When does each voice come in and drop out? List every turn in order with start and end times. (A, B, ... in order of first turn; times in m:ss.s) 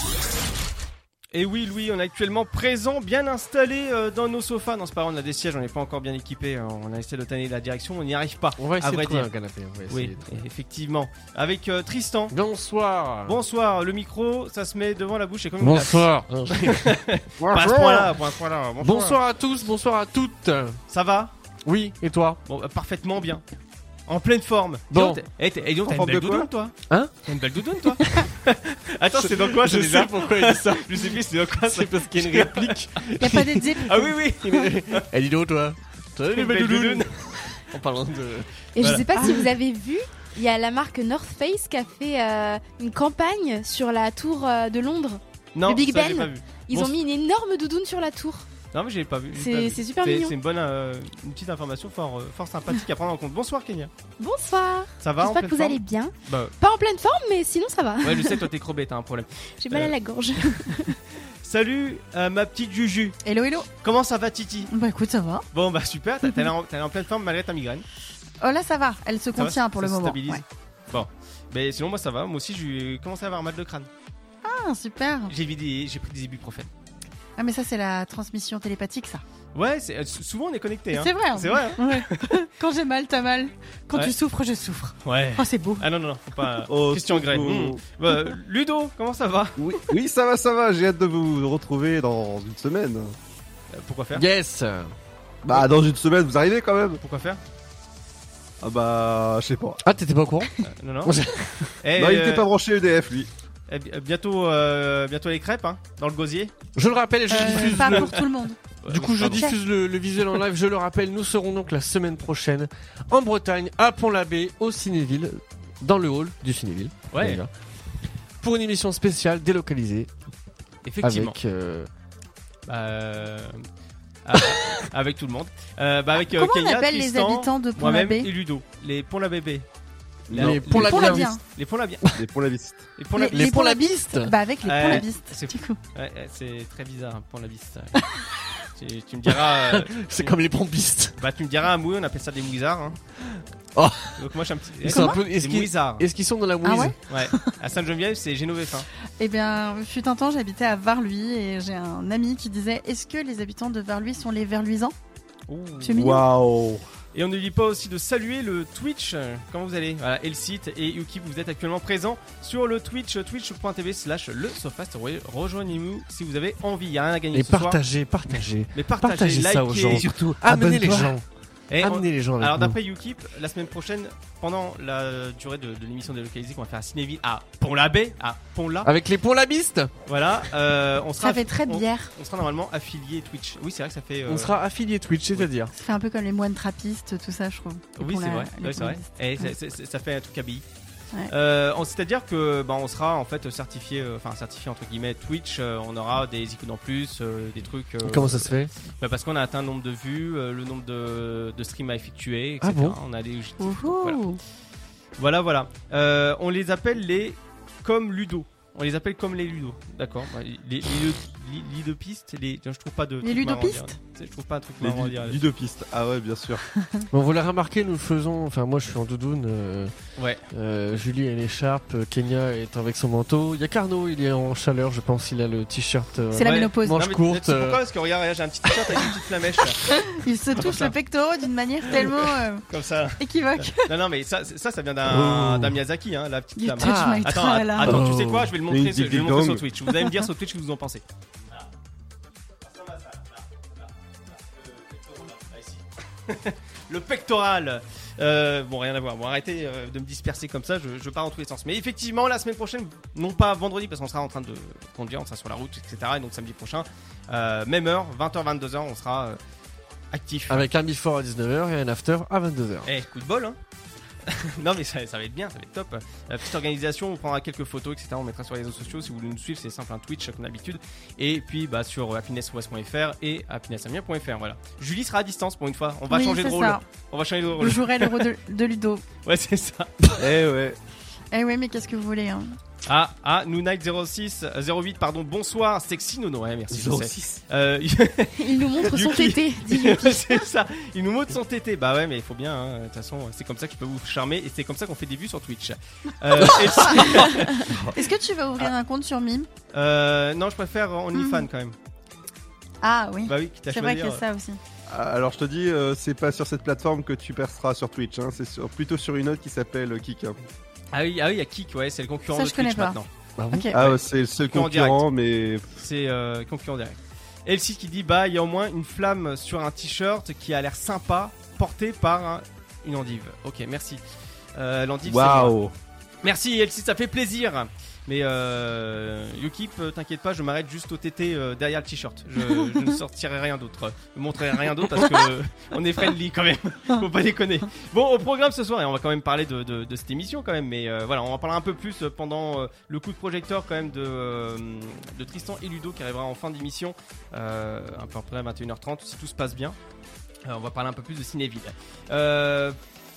0:01.3-0:09.3 A
0:08.6-0:10.4 B
0:09.9-0:12.4 A
0:12.3-0:13.4 B
0:13.2-0:19.2 A
0:15.6-0:17.0 B
0:17.4-0:18.0 C
0:17.5-0:18.0 B
0:18.8-0:20.8 B
0:20.9-0:21.3 A
0:21.7-0:22.4 B
0:22.5-0:23.4 A
0:24.1-0:35.1 A
0:24.9-0:25.2 B
0:25.8-0:26.5 C
0:29.2-0:33.7 B
0:33.2-0:34.1 D
0:34.4-0:38.5 B
0:36.3-0:37.1 A
0:38.8-0:48.5 E
0:39.2-0:39.5 D
0:45.6-0:47.0 A
0:48.7-0:53.9 A
0:49.3-0:50.4 E
0:54.2-0:58.4 E
0:55.0-0:56.5 A
0:58.0-0:59.9 A
0:59.6-1:01.0 E
1:01.4-1:03.2 A
1:03.2-1:03.7 D
1:03.8-1:04.7 A
1:04.7-1:05.5 D
1:05.5-1:07.8 A
1:08.4-1:10.4 D
1:09.4-1:13.9 A
1:14.4-1:15.3 D
1:15.3-1:16.7 A
1:17.4-1:19.2 D
1:19.6-1:22.3 A
1:20.9-1:25.8 D
1:25.0-1:29.7 A
1:26.7-1:27.8 C
1:29.6-1:33.2 C
1:33.7-1:34.3 A
1:34.1-1:34.9 B
1:35.4-1:37.0 C
1:37.0-1:37.4 A
1:38.6-1:39.8 C
1:39.8-1:41.8 B
1:40.7-1:41.2 A
1:41.8-1:42.5 A
1:42.0-1:43.3 C
1:43.7-1:46.5 A
1:46.8-1:48.3 B
1:47.3-1:48.6 D
1:47.4-1:48.1 A
1:48.8-1:49.5 A
1:48.9-1:57.5 B
1:49.2-1:49.6 D
1:57.1-1:57.4 A
1:58.4-2:00.1 B
2:00.8-2:01.4 A
2:01.0-2:01.9 B
2:02.7-2:03.6 A
2:04.2-2:09.6 A
2:06.2-2:08.3 D
2:10.3-2:10.7 C
2:10.3-2:12.0 A
2:10.3-2:11.3 B
2:10.7-2:11.4 D
2:12.2-2:12.9 C
2:13.0-2:13.5 A
2:13.2-2:15.8 D
2:13.3-2:15.0 B
2:14.6-2:18.0 A
2:18.8-2:20.4 A
2:19.3-2:21.2 B
2:21.2-2:23.0 A
2:23.8-2:24.3 B
2:24.2-2:26.1 A
2:24.8-2:27.0 B
2:24.9-2:25.2 D
2:26.6-2:27.4 D
2:27.1-2:28.9 A
2:29.2-2:35.0 D
2:35.5-2:36.0 A
2:35.8-2:36.3 D
2:35.9-2:36.8 C
2:37.1-2:47.8 A
2:47.3-2:51.2 B
2:48.7-2:50.1 A
2:49.9-2:51.1 C
2:51.7-2:58.9 A
2:51.8-2:52.8 B
2:58.8-2:59.9 B
3:00.1-3:04.6 A
3:01.2-3:02.1 D
3:04.3-3:05.7 B
3:05.7-3:09.5 D
3:08.0-3:10.6 A
3:11.3-3:24.2 A
3:18.0-3:18.7 B
3:22.6-3:23.0 B
3:23.6-3:24.4 D
3:25.2-3:35.4 A
3:33.2-3:34.0 D
3:34.8-3:36.6 C
3:36.7-3:37.1 D
3:37.1-3:39.9 B
3:40.2-3:40.4 A
3:40.5-3:47.8 B
3:46.3-3:47.0 D
3:46.4-3:49.9 A
3:49.8-3:52.6 D
3:50.6-3:51.0 A
3:51.9-4:01.7 A
3:53.2-3:54.0 D
3:55.0-3:55.8 B
3:56.6-3:58.0 D
3:56.8-3:58.6 B
3:58.7-3:59.7 C
3:59.9-4:00.2 D
4:02.6-4:19.4 A
4:20.1-4:20.7 A
4:20.5-4:22.9 B
4:22.8-4:23.6 A
4:24.3-4:38.3 A
4:36.1-4:36.8 D
4:37.6-4:39.0 D
4:39.2-4:39.9 A
4:40.2-4:40.8 C
4:41.3-4:42.6 D
4:42.9-4:57.7 A
4:46.7-4:47.4 C
4:48.4-4:50.4 E
4:56.5-4:58.0 C
4:56.7-4:59.5 D
4:59.7-5:01.8 A
5:01.2-5:01.5 D
5:02.8-5:04.6 D
5:03.3-5:04.2 A
5:04.9-5:10.4 C
5:10.9-5:13.1 A
5:12.3-5:13.0 D
5:13.4-5:13.7 B
5:13.5-5:13.8 D
5:13.7-5:15.6 C
5:13.8-5:15.0 A
5:15.8-5:24.0 A
5:24.6-5:25.6 A
5:25.1-5:25.7 C
5:26.2-5:49.8 A
5:50.5-5:52.8 A